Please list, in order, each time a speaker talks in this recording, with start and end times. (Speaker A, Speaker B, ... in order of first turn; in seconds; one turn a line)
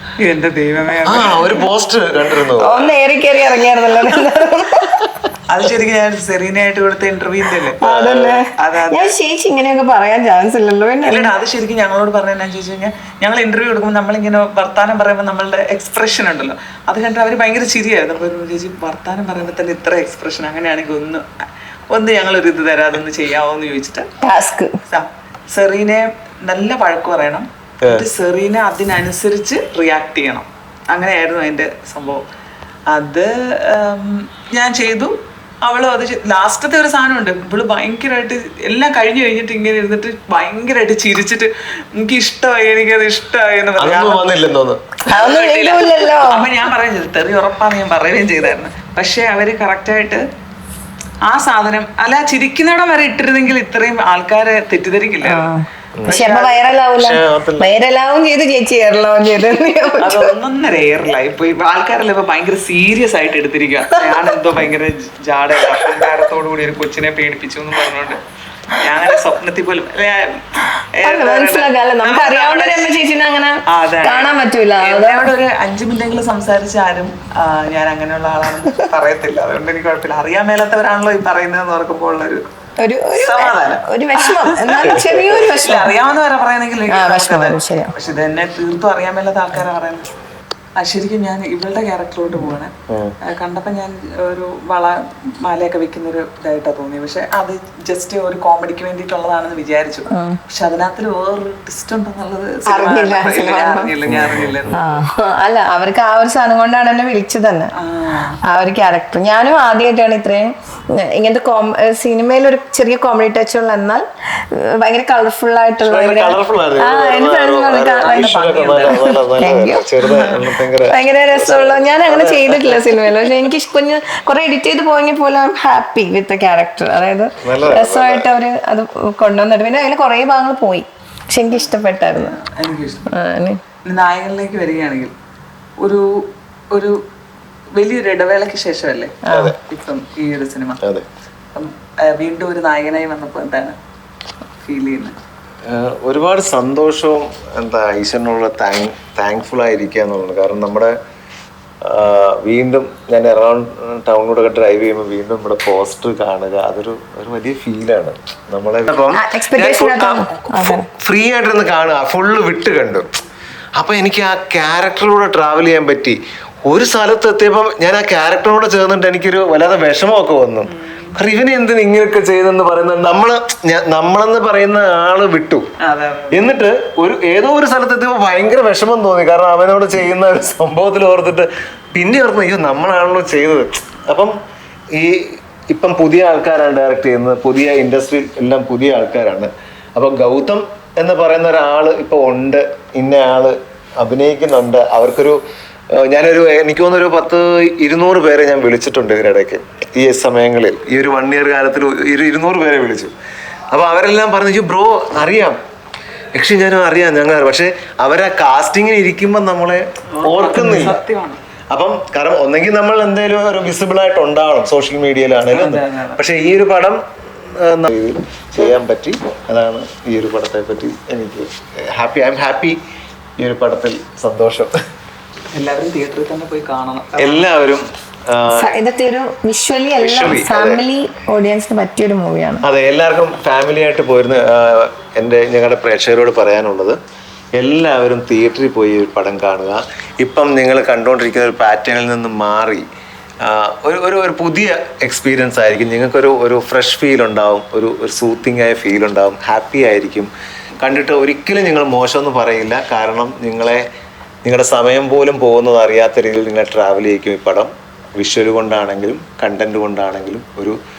Speaker A: 0.2-1.7
Speaker B: 1.1-2.9
Speaker C: 2.5-5.2
Speaker A: 5.5-7.8
Speaker C: 7.8-11.3
Speaker B: 7.8-8.4
Speaker A: 8.6-9.2
Speaker A: 11.0-21.3
Speaker A: 21.9-24.1
Speaker C: 24.2-24.8
Speaker A: 24.9-32.2
Speaker A: 32.9-44.2
Speaker B: 43.8-44.8
Speaker C: 45.1-46.5
Speaker A: 45.1-50.2
Speaker A: 51.3-55.5
Speaker C: 55.2-60.4
Speaker B: 56.0-56.2
Speaker A: 56.1-56.6
Speaker B: 57.0-57.8
Speaker A: 60.0-68.2
Speaker C: 65.7-66.0
Speaker A: 68.7-73.0
Speaker C: 71.0-75.3
Speaker A: 73.7-82.5
Speaker C: 82.8-86.0
Speaker A: 83.1-90.1
Speaker B: 84.8-85.5
Speaker C: 86.9-87.9
Speaker A: 90.8-105.0
Speaker B: 92.9-93.1
Speaker C: 100.1-100.4
Speaker C: 102.7-107.7
Speaker B: 104.1-104.6
Speaker A: 107.8-108.4
Speaker C: 108.4-132.4
Speaker B: 115.8-123.4
Speaker A: 118.0-119.0
Speaker A: 120.0-120.3
Speaker B: 127.4-128.3
Speaker A: 131.5-133.1
Speaker C: 133.1-133.6
Speaker A: 133.8-135.1
Speaker A: 135.8-136.1
Speaker A: 136.7-137.0
Speaker A: 137.8-140.8
Speaker C: 139.2-139.6
Speaker B: 139.3-139.6
Speaker B: 140.8-141.1
Speaker A: 141.5-143.8
Speaker A: 144.6-145.2
Speaker B: 145.7-151.0
Speaker B: 151.9-163.1
Speaker C: 159.1-160.9
Speaker B: 163.8-175.7
Speaker A: 170.7-171.1
Speaker A: 175.8-176.5
Speaker B: 176.3-184.3
Speaker B: 185.0-195.4
Speaker B: 196.0-203.1
Speaker B: 203.7-205.6
Speaker B: 206.3-211.0
Speaker A: 210.2-211.4
Speaker B: 211.7-217.0
Speaker A: 215.5-216.2
Speaker B: 217.6-222.8
Speaker B: 223.4-224.7
Speaker A: 225.5-227.5
Speaker B: 227.2-228.7
Speaker C: 228.5-232.6
Speaker B: 230.0-230.8
Speaker B: 232.6-237.0
Speaker B: 237.6-242.9
Speaker B: 243.4-253.9
Speaker B: 254.4-260.8